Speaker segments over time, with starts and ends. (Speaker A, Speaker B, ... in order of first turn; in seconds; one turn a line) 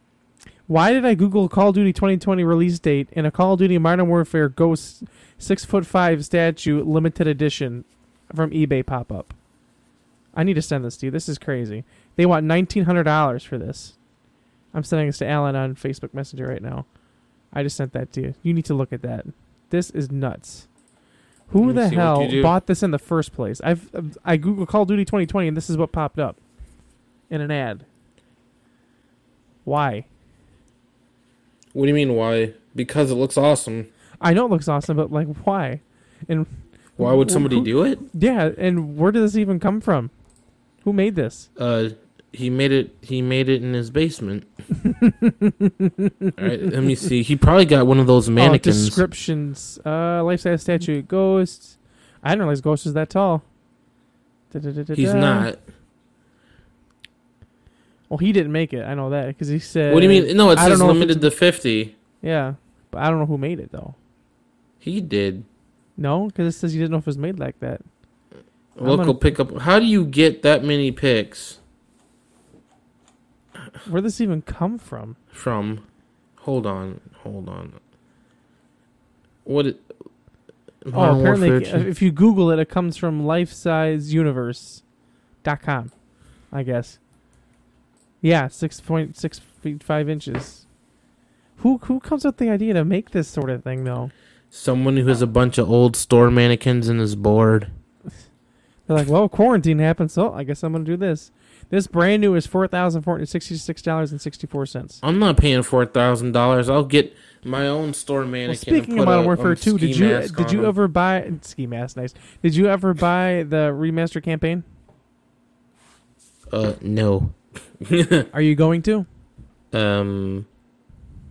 Speaker A: 0.7-9.3
Speaker A: 10.3-13.9
Speaker A: 14.7-16.9
Speaker A: 17.5-20.7
Speaker A: 21.5-26.4
Speaker B: 21.6-22.5
Speaker A: 27.3-27.9
Speaker A: 29.6-30.1
Speaker B: 31.7-33.9
Speaker A: 34.2-40.1
Speaker B: 37.0-38.0
Speaker A: 40.8-41.5
Speaker B: 41.5-44.5
Speaker A: 44.8-46.4
Speaker B: 46.4-49.0
Speaker A: 48.4-53.4
Speaker A: 54.5-55.5
Speaker B: 54.9-55.6
Speaker A: 58.1-61.3
Speaker B: 59.9-61.9
Speaker A: 62.2-64.0
Speaker B: 64.8-65.5
Speaker A: 66.0-67.8
Speaker B: 68.8-71.6
Speaker A: 68.8-69.2
Speaker A: 73.8-75.2
Speaker B: 75.3-75.8
Speaker B: 76.4-77.8
Speaker B: 79.4-79.8
Speaker B: 80.8-81.9
Speaker A: 80.9-84.8
Speaker A: 85.4-85.9
Speaker A: 86.5-87.0
Speaker A: 88.2-90.6
Speaker A: 91.6-94.1
Speaker B: 94.5-97.7
Speaker A: 98.9-105.0
Speaker B: 105.0-110.7
Speaker A: 108.5-114.6
Speaker B: 116.5-118.3
Speaker A: 118.3-119.0
Speaker B: 119.7-120.5